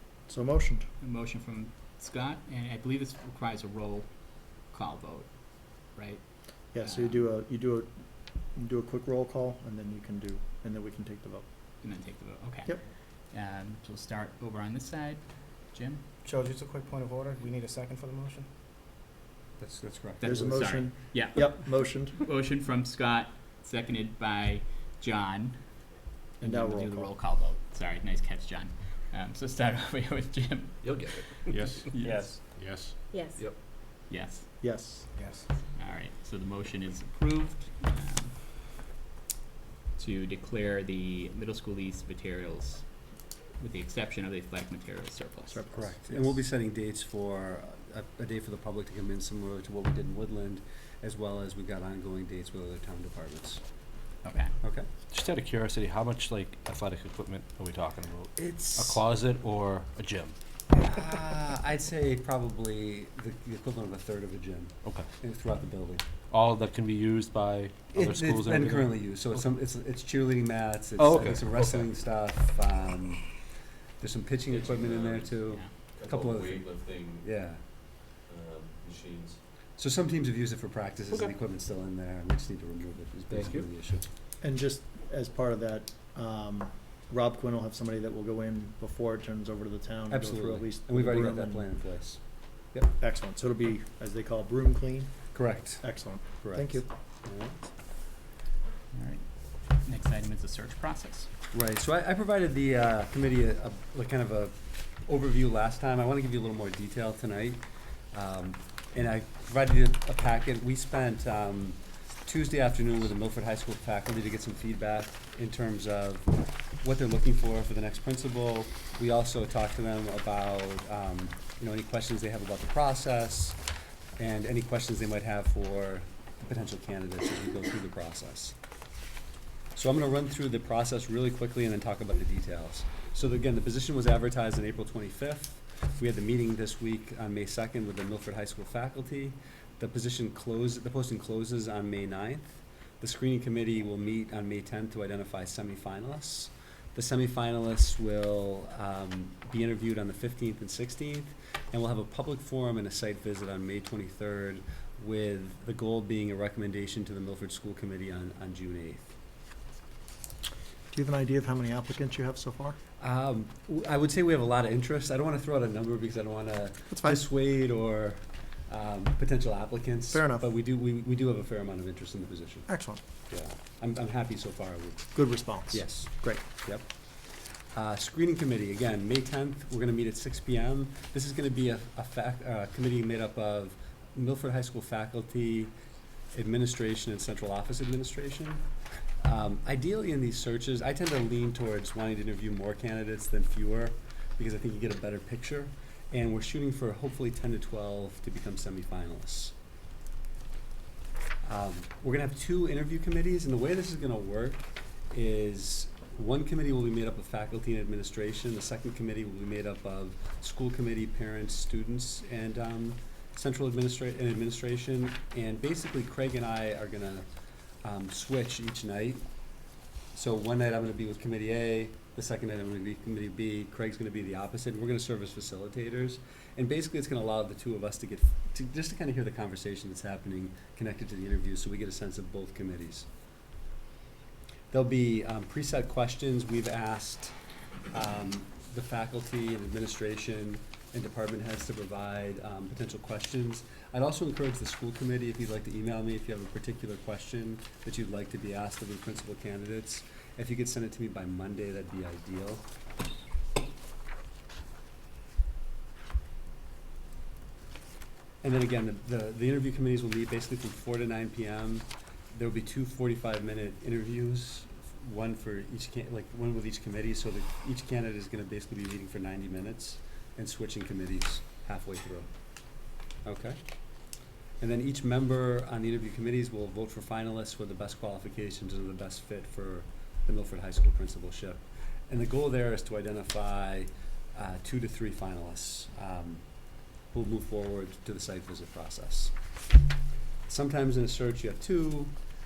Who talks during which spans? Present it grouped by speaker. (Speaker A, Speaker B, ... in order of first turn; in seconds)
Speaker A: 0.3-0.8, 6.7-7.9, 8.5-11.4, 20.2-22.2, 26.4-27.1, 32.0-32.4, 34.6-35.1, 45.5-46.3, 84.4-91.7, 92.9-95.1, 95.8-96.9, 160.9-162.8, 166.9-167.2, 170.1-170.5, 172.7-173.0, 175.2-176.4
Speaker B: 1.0-7.3, 11.8-16.0, 20.2-25.8, 26.4-32.3, 34.1-34.5, 35.8-38.5, 40.0-42.9, 43.6-45.6, 54.2-54.5, 98.9-101.3
Speaker C: 16.2-18.5, 35.2-35.5
Speaker D: 19.6-20.3, 45.8-53.6, 54.6-54.9, 58.4-59.0, 60.7-66.0, 67.9-73.2, 74.0-77.7, 79.8-84.1, 90.1-92.2, 95.3-95.8, 96.4-97.6, 101.5-104.5, 105.1-107.6, 108.1-123.6, 124.2-128.5, 129.8-159.1, 163.0-172.7, 173.3-175.2, 175.7-176.8, 177.8-185.7, 186.3-188.7, 189.2-199.5, 201.4-217.2, 217.8-219.2, 220.1-233.1, 234.7-237.3, 237.9-252.6, 258.4-272.3, 273.2-273.6, 274.6-286.4, 287.1-289.3, 290.5-292.1
Speaker E: 30.8-31.3, 55.1-60.3, 66.3-69.4, 71.0-72.0, 81.1-81.3, 83.3-83.7
Speaker F: 74.5-79.4